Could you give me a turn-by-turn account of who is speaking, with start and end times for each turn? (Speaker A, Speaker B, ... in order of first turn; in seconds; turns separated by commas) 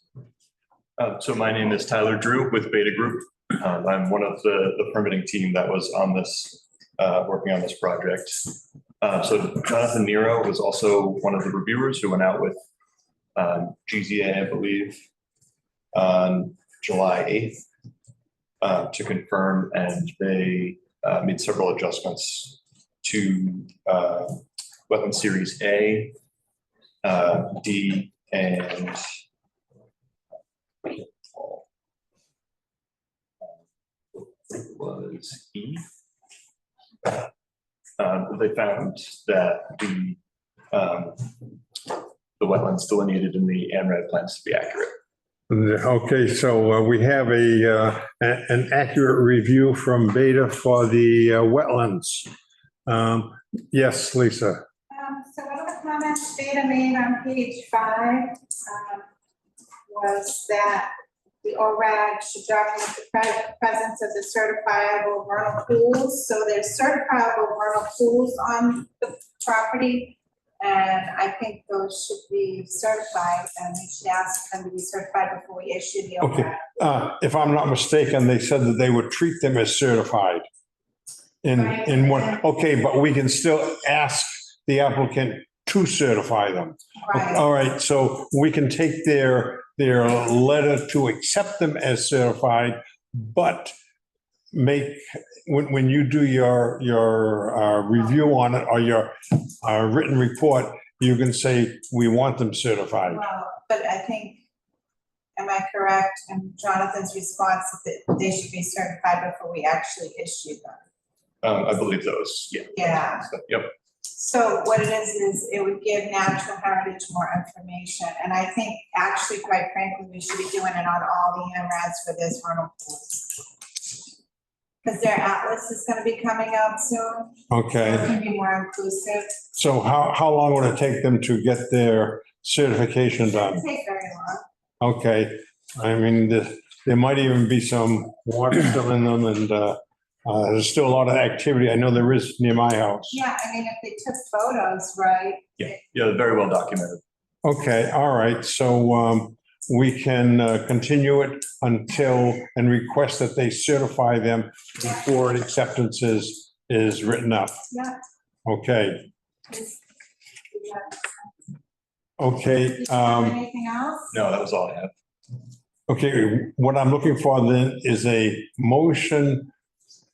Speaker A: 1.0-8.5, Speaker A: 9.0-12.6, Speaker A: 13.3-15.0, Speaker A: 15.9-17.6, Speaker A: 18.6-26.1, Speaker A: 27.0-29.0, Speaker A: 30.8-31.6, Speaker A: 34.1-35.8, Speaker A: 38.0-40.2, Speaker A: 40.7-41.3, Speaker A: 42.4-44.9, Speaker B: 45.5-52.3, Speaker B: 52.9-54.6, Speaker C: 54.9-59.1, Speaker C: 59.9-60.9, Speaker C: 61.4-76.6, Speaker B: 76.2-80.4, Speaker B: 81.4-93.7, Speaker C: 81.6-82.3, Speaker C: 87.0-87.4, Speaker B: 94.5-103.2, Speaker C: 103.0-104.4, Speaker C: 105.3-110.8, Speaker A: 111.4-113.7, Speaker C: 112.7-113.3, Speaker C: 114.1-123.4, Speaker C: 124.8-129.3, Speaker B: 127.5-128.1, Speaker B: 129.5-133.6, Speaker C: 133.4-134.4, Speaker B: 134.8-143.2, Speaker C: 143.1-145.8, Speaker A: 145.6-147.0, Speaker B: 147.4-157.6, Speaker C: 157.7-158.0, Speaker B: 158.4-159.1, Speaker C: 159.5-159.8, Speaker C: 160.5-161.3, Speaker B: 162.2-163.4, Speaker C: 162.8-164.1, Speaker A: 164.1-164.9, Speaker B: 165.9-169.5